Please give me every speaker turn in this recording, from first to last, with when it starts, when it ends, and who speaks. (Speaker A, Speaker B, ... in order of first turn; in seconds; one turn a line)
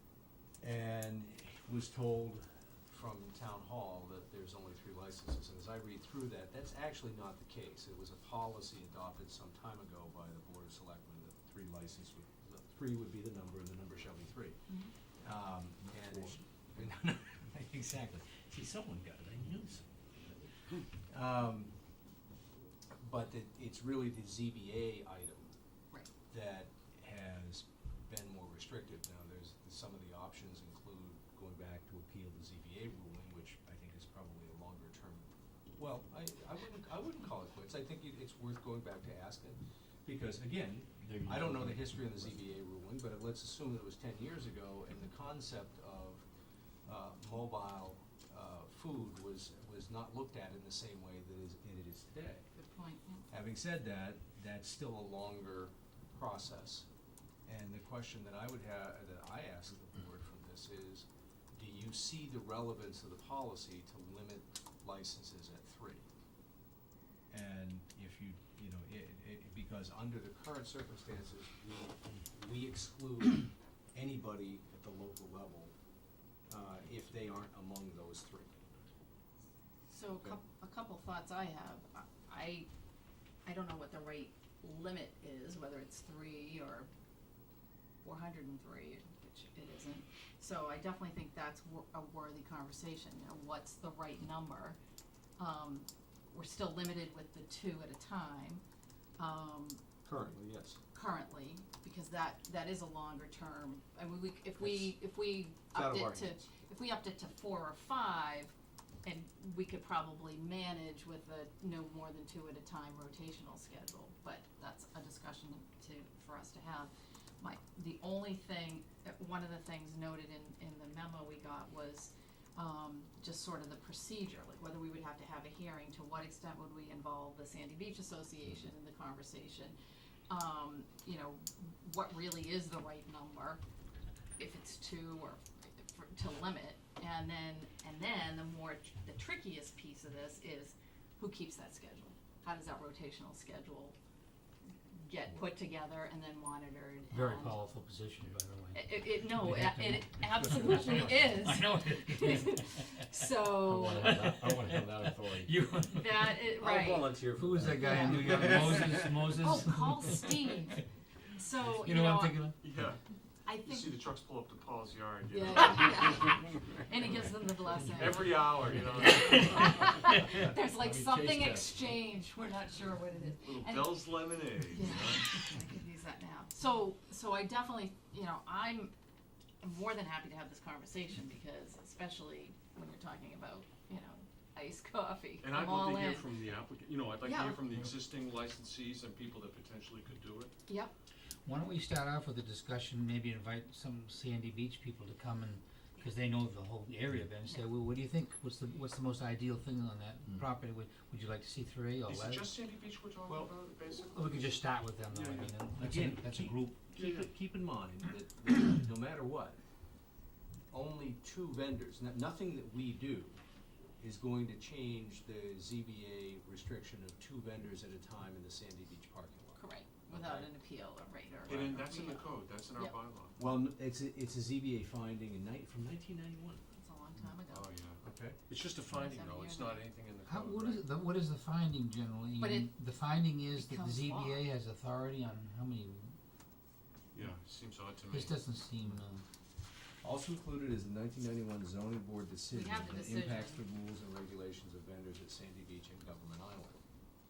Speaker A: 0.6-14.6
Speaker A: 15.2-21.7
Speaker A: 22.9-25.5
Speaker A: 26.3-46.3
Speaker B: 41.0-42.4
Speaker A: 46.9-52.5
Speaker C: 52.5-53.3
Speaker A: 53.3-56.9
Speaker A: 57.5-66.0
Speaker A: 67.3-75.8
Speaker A: 76.5-78.6
Speaker C: 79.9-82.7
Speaker C: 83.5-86.9
Speaker C: 88.0-94.8
Speaker C: 95.4-98.6
Speaker C: 99.2-99.8
Speaker A: 100.0-100.8
Speaker C: 100.9-129.8
Speaker A: 104.6-105.0
Speaker A: 105.7-106.4
Speaker C: 130.3-133.6
Speaker C: 134.4-144.0
Speaker C: 144.9-147.6
Speaker D: 147.1-153.0
Speaker C: 148.7-154.2
Speaker A: 150.3-151.4
Speaker B: 153.7-155.4
Speaker D: 153.8-156.6
Speaker C: 155.9-157.1
Speaker A: 156.6-157.1
Speaker B: 156.8-158.0
Speaker D: 157.3-160.8
Speaker C: 157.7-160.8
Speaker A: 158.1-158.9
Speaker C: 161.3-162.5
Speaker D: 161.7-162.6
Speaker E: 162.6-166.5
Speaker C: 163.5-164.0
Speaker C: 165.3-174.2
Speaker E: 167.8-170.1
Speaker A: 170.8-171.6
Speaker E: 173.4-175.4
Speaker C: 174.7-178.9
Speaker C: 179.6-186.3
Speaker E: 185.4-190.5
Speaker C: 187.2-187.6
Speaker C: 190.7-190.9
Speaker D: 191.4-202.6
Speaker E: 202.1-204.6
Speaker D: 204.1-206.8
Speaker E: 205.1-205.5
Speaker A: 205.8-209.6
Speaker E: 207.0-207.3
Speaker A: 210.7-213.4
Speaker A: 214.0-220.5
Speaker C: 219.6-222.9
Speaker E: 221.5-223.4
Speaker A: 223.4-226.6
Speaker C: 226.7-227.7
Speaker E: 227.5-230.8
Speaker A: 228.0-228.4
Speaker C: 228.9-229.9
Speaker D: 230.3-236.2
Speaker C: 232.4-232.7
Speaker C: 233.4-234.5
Speaker E: 237.1-238.3
Speaker D: 238.1-239.2
Speaker A: 240.0-246.8
Speaker C: 242.5-243.6